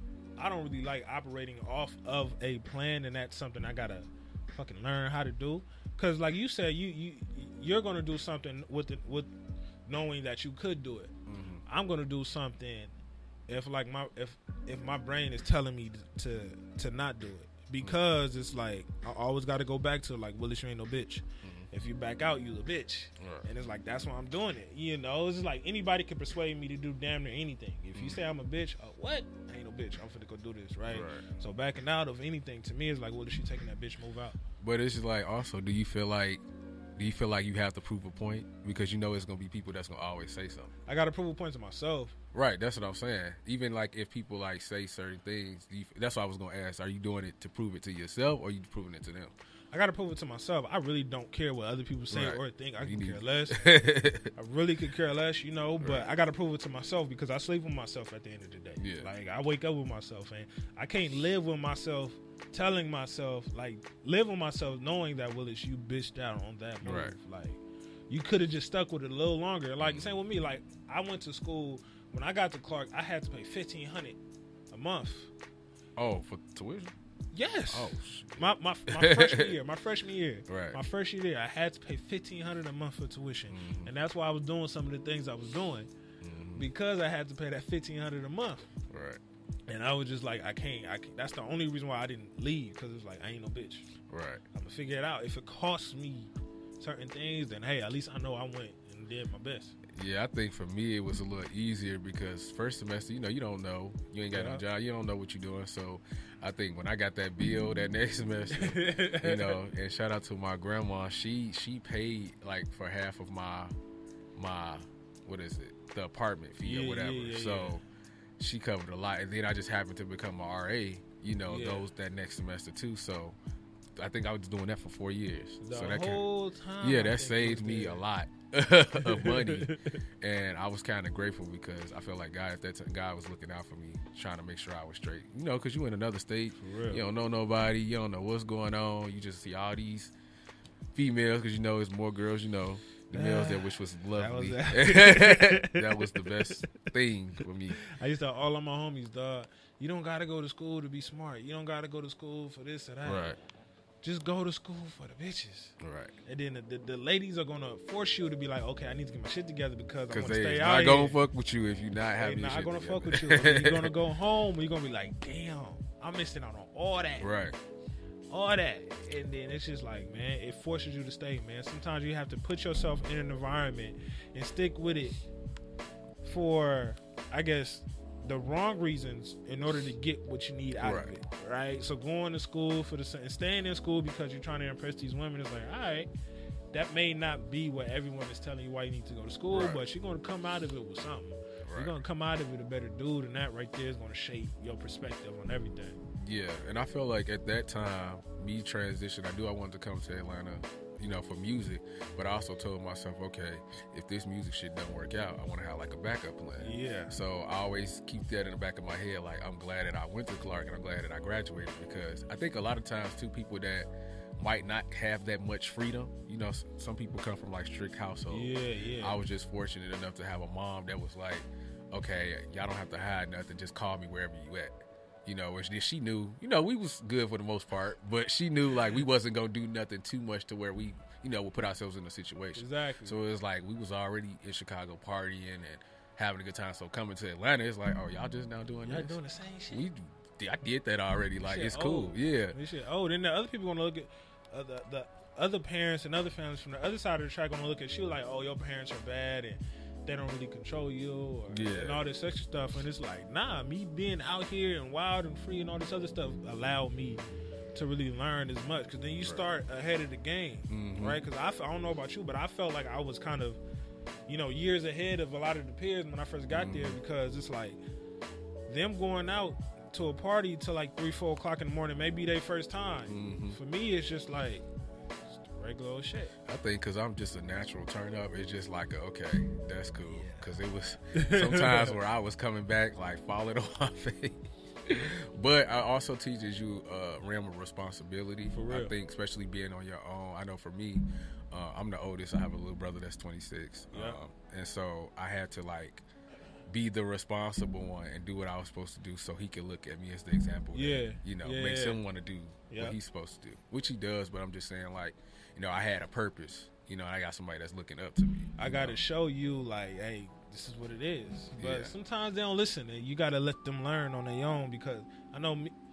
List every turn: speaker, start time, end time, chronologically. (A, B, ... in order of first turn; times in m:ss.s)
0:00.4-0:09.3 A
0:09.9-0:11.1 A
0:11.3-0:11.6 B
0:11.7-0:12.9 A
0:13.5-0:34.4 A
0:21.4-0:21.7 B
0:23.2-0:23.5 B
0:28.0-0:28.2 B
0:30.9-0:31.2 B
0:34.6-0:36.4 B
0:37.0-0:40.7 B
0:40.9-0:42.2 A
0:42.3-0:49.3 B
0:49.7-0:53.7 A
0:52.1-0:54.3 B
0:54.4-1:14.2 A
0:55.8-0:56.1 B
0:58.8-0:59.1 B
1:06.8-1:07.2 B
1:09.8-1:10.2 B
1:14.7-1:15.3 A
1:16.0-1:17.0 B
1:17.3-1:25.9 A
1:17.7-1:19.6 B
1:20.5-1:20.8 B
1:23.5-1:23.9 B
1:26.2-1:26.7 B
1:26.6-1:28.7 A
1:28.9-1:29.2 B
1:29.7-1:33.9 A
1:34.1-1:34.4 B
1:34.5-1:39.8 A
1:39.9-1:53.8 B
1:44.3-1:44.6 A
1:48.5-1:49.6 A
1:54.4-1:57.8 B
1:56.6-1:57.8 A
1:58.4-2:03.4 B
2:01.5-2:01.9 A
2:04.0-2:06.2 B
2:05.6-2:08.0 A
2:06.8-2:20.1 B
2:09.0-2:10.0 A
2:16.6-2:17.0 A
2:21.0-2:27.8 B
2:23.1-2:26.9 A
2:27.8-2:33.4 A
2:33.0-2:33.4 B
2:34.0-2:35.8 A
2:35.8-2:36.2 B
2:36.3-2:41.2 A
2:40.1-2:43.9 B
2:42.2-2:47.3 A
2:47.2-2:47.6 B
2:48.3-2:55.2 A
2:56.2-3:06.1 A
3:00.8-3:01.1 B
3:06.7-3:16.0 A
3:09.5-3:09.8 B
3:11.6-3:12.0 B
3:16.2-3:59.2 B
3:26.6-3:27.2 A
3:38.3-3:39.2 A
3:52.6-3:53.2 A
3:58.8-3:59.9 A
3:59.7-4:02.6 B
4:01.4-4:23.6 A
4:11.5-4:12.1 B
4:20.7-4:21.2 B
4:24.3-4:27.8 A
4:26.5-4:27.0 B
4:28.7-4:34.7 A
4:33.1-4:33.6 B
4:35.3-4:36.3 A
4:36.4-4:56.1 B
4:40.1-4:40.5 A
4:41.1-4:42.0 A
4:48.5-4:48.9 A
4:53.9-4:54.2 A
4:56.7-5:09.0 B
5:00.7-5:02.0 A
5:02.7-5:03.0 A
5:08.6-5:15.7 A
5:11.6-5:11.9 B